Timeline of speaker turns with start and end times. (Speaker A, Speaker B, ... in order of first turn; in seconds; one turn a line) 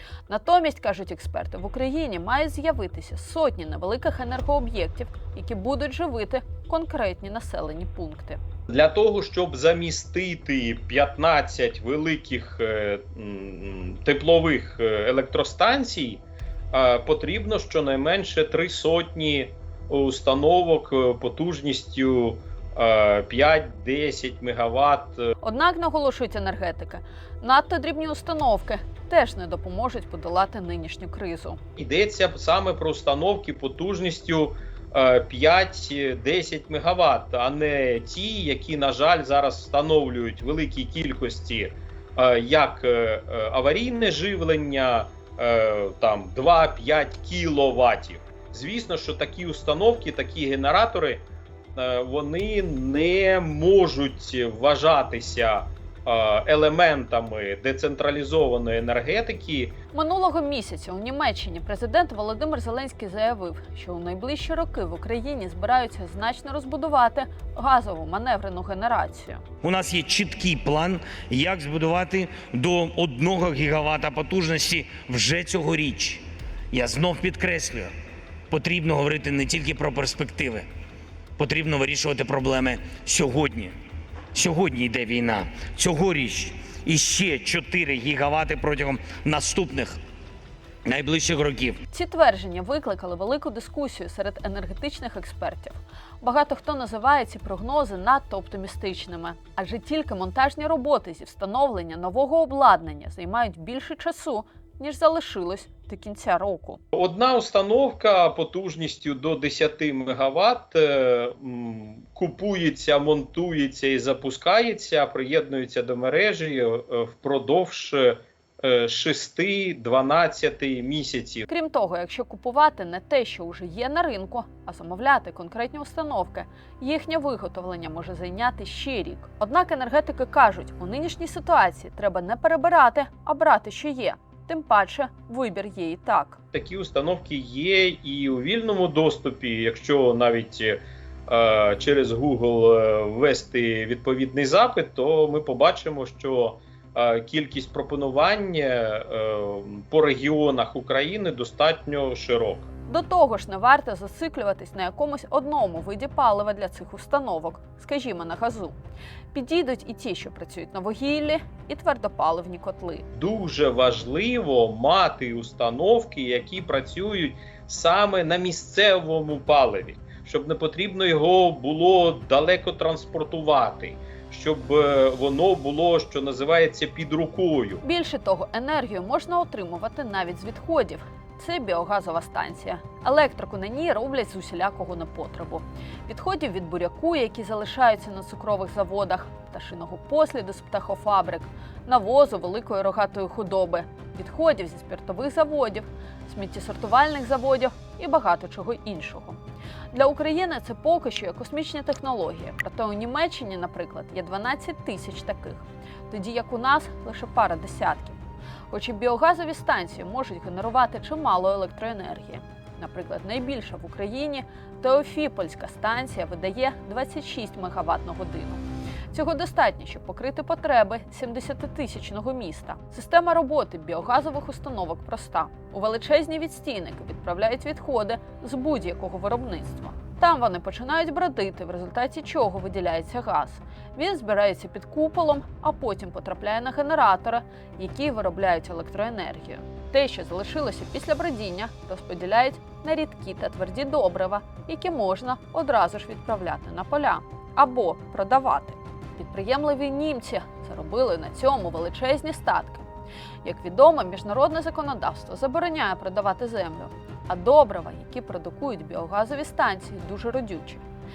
Speaker A: 0.3-8.4
Speaker B: 8.7-25.3
Speaker A: 25.4-31.6
Speaker B: 31.8-59.8
Speaker A: 59.9-69.4
Speaker C: 69.6-77.9
Speaker C: 78.5-80.7
Speaker C: 81.4-83.7
Speaker C: 84.3-90.0
Speaker C: 90.8-91.8
Speaker A: 91.9-106.8
Speaker B: 106.9-121.5
Speaker A: 121.5-136.4
Speaker B: 136.5-152.7
Speaker A: 152.9-158.8
Speaker A: 159.3-163.1
Speaker B: 163.1-177.8
Speaker A: 177.8-199.4
Speaker A: 199.9-208.2
Speaker A: 208.7-252.8
Speaker A: 253.4-260.8